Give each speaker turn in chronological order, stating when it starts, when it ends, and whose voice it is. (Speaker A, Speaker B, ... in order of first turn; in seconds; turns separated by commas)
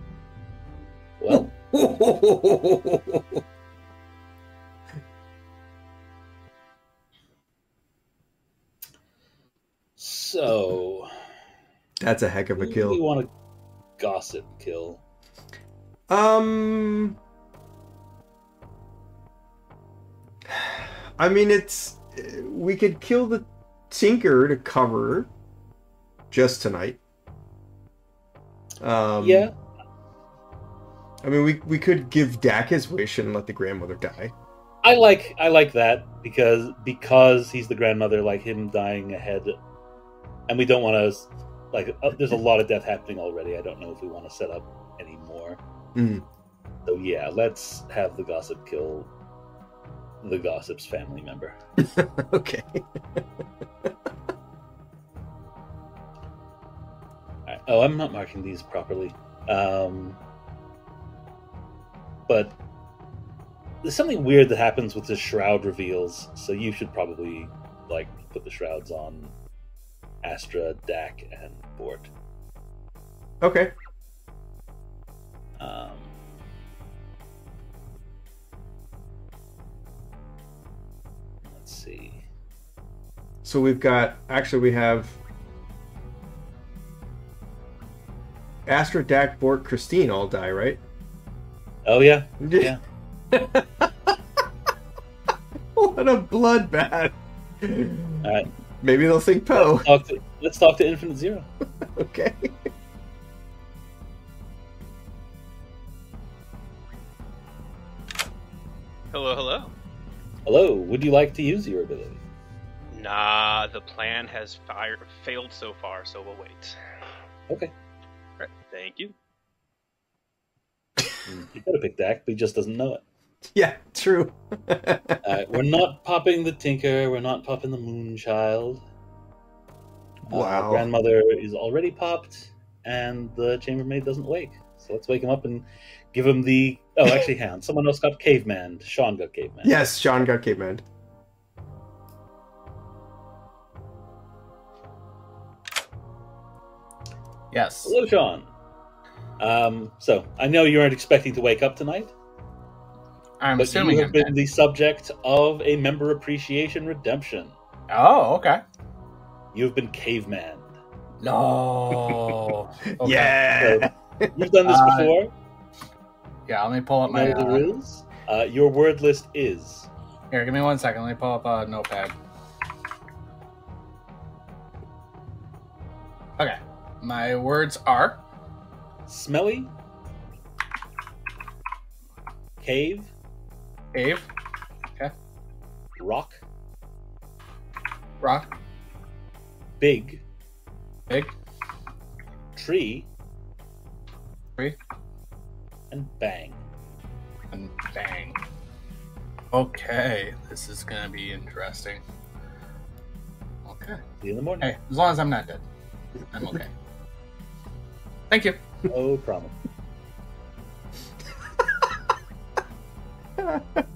Speaker A: 1.2-1.5, Speaker B: 1.3-3.4, Speaker A: 10.0-11.1, Speaker B: 12.0-13.0, Speaker A: 12.6-13.3, Speaker A: 14.0-15.0, Speaker B: 16.1-17.2, Speaker B: 20.5-25.3, Speaker B: 26.3-27.0, Speaker B: 28.8-29.5, Speaker A: 29.2-29.5, Speaker B: 31.2-34.3, Speaker A: 34.8-39.5, Speaker A: 40.5-45.6, Speaker B: 45.9-46.2, Speaker A: 46.9-49.1, Speaker A: 50.2-51.5, Speaker B: 51.8-52.8, Speaker A: 57.5-60.2, Speaker A: 62.3-62.5, Speaker A: 63.8-69.3, Speaker A: 70.2-72.1, Speaker B: 73.4-73.7, Speaker A: 75.6-76.1, Speaker A: 81.4-82.2, Speaker B: 83.4-85.2, Speaker B: 88.7-90.8, Speaker A: 91.8-92.8, Speaker B: 92.4-92.7, Speaker B: 93.3-94.1, Speaker B: 95.7-98.2, Speaker A: 98.2-98.5, Speaker B: 98.8-99.9, Speaker A: 99.5-101.5, Speaker B: 102.0-102.5, Speaker C: 109.1-109.7, Speaker A: 110.5-112.2, Speaker C: 112.9-116.8, Speaker C: 118.4-119.1, Speaker A: 121.2-123.0, Speaker B: 123.5-125.2, Speaker A: 125.2-128.8, Speaker A: 130.3-139.8, Speaker B: 130.3-130.9, Speaker B: 139.6-140.8, Speaker D: 147.5-147.9, Speaker A: 147.8-148.5, Speaker A: 149.4-152.1, Speaker D: 153.4-154.3, Speaker A: 153.6-157.5, Speaker D: 157.9-158.6, Speaker A: 159.5-160.7, Speaker D: 161.2-163.4, Speaker B: 163.0-164.3, Speaker A: 163.6-165.3, Speaker D: 164.6-165.1, Speaker D: 166.5-167.7, Speaker A: 167.1-169.9, Speaker D: 170.3-172.1, Speaker D: 176.4-178.2, Speaker A: 179.1-179.7, Speaker A: 182.6-183.1, Speaker D: 183.9-184.3, Speaker A: 186.0-186.4, Speaker D: 188.2-188.5, Speaker A: 189.8-190.2, Speaker A: 192.5-193.1, Speaker A: 195.9-196.6, Speaker D: 197.5-198.4, Speaker D: 199.5-202.0, Speaker D: 203.7-204.0, Speaker A: 204.2-204.7, Speaker D: 204.6-205.6, Speaker D: 206.3-206.7, Speaker D: 208.3-208.6, Speaker A: 208.9-209.5, Speaker B: 213.4-213.8